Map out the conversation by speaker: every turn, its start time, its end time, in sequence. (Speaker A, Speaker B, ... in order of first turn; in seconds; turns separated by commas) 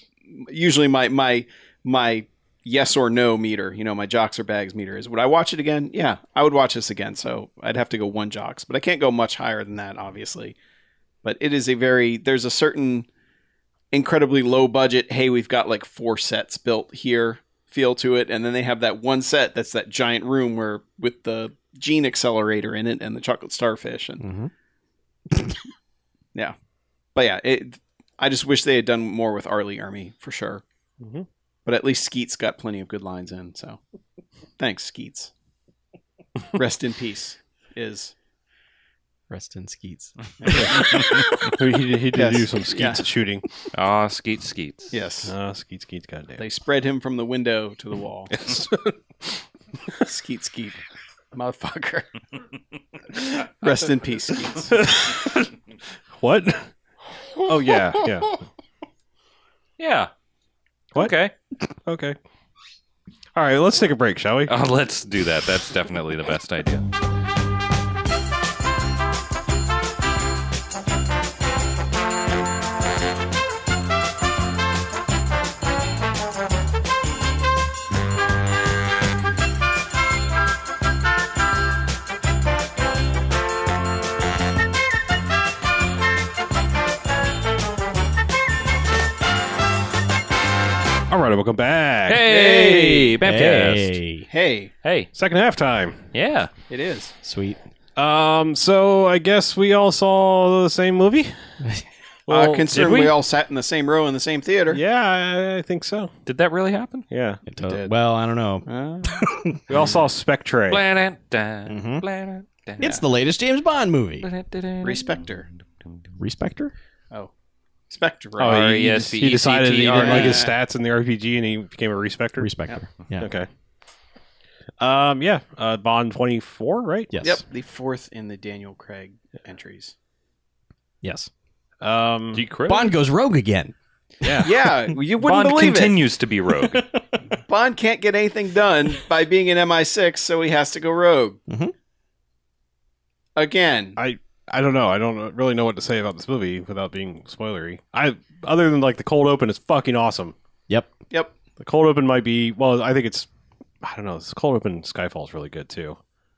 Speaker A: 0.3-10.6, Speaker A: 11.2-13.1, Speaker A: 13.9-24.2, Speaker B: 24.2-24.5, Speaker A: 27.1-30.6, Speaker A: 31.7-33.8, Speaker A: 34.6-35.3, Speaker A: 36.5-38.1, Speaker B: 39.3-40.2, Speaker A: 40.4-41.2, Speaker C: 40.5-43.5, Speaker A: 42.1-43.0, Speaker D: 43.7-44.9, Speaker A: 44.9-45.3, Speaker C: 45.2-46.4, Speaker A: 46.4-48.3, Speaker C: 48.3-49.4, Speaker A: 50.0-50.8, Speaker A: 51.3-52.1, Speaker A: 53.3-54.8, Speaker C: 54.5-55.5, Speaker C: 56.1-56.7, Speaker C: 57.4-58.3, Speaker D: 59.8-60.1, Speaker D: 61.0-61.3, Speaker C: 61.9-62.2, Speaker C: 63.4-64.5, Speaker D: 64.5-66.9, Speaker C: 91.1-92.3, Speaker D: 92.1-94.0, Speaker A: 92.2-93.2, Speaker B: 93.2-94.3, Speaker A: 94.3-94.7, Speaker D: 94.8-95.1, Speaker C: 95.1-96.0, Speaker D: 96.1-96.5, Speaker A: 96.7-97.1, Speaker B: 97.2-97.6, Speaker C: 98.0-101.3, Speaker C: 102.3-103.0, Speaker A: 102.3-104.8, Speaker D: 102.7-103.1, Speaker C: 104.7-106.1, Speaker D: 106.3-107.1, Speaker C: 107.1-107.4, Speaker B: 107.5-109.5, Speaker A: 107.6-107.9, Speaker A: 108.7-109.3, Speaker C: 109.7-110.8, Speaker D: 110.7-113.0, Speaker B: 111.7-112.0, Speaker B: 112.8-114.3, Speaker D: 114.2-115.3, Speaker A: 114.8-115.5, Speaker B: 116.2-116.7, Speaker A: 117.9-118.8, Speaker C: 118.4-122.5, Speaker D: 118.4-120.4, Speaker A: 120.0-120.5, Speaker B: 122.4-123.3, Speaker C: 123.2-123.5, Speaker C: 124.8-127.1, Speaker B: 127.1-127.4, Speaker A: 127.2-129.9, Speaker B: 131.0-131.3, Speaker C: 131.8-132.4, Speaker D: 132.3-132.9, Speaker B: 132.7-133.7, Speaker C: 134.2-134.5, Speaker A: 134.4-135.9, Speaker D: 135.2-136.8, Speaker B: 136.7-137.0, Speaker A: 137.5-141.4, Speaker B: 141.5-141.7, Speaker A: 143.4-144.0, Speaker C: 144.0-150.3, Speaker C: 151.6-153.3, Speaker C: 153.8-156.0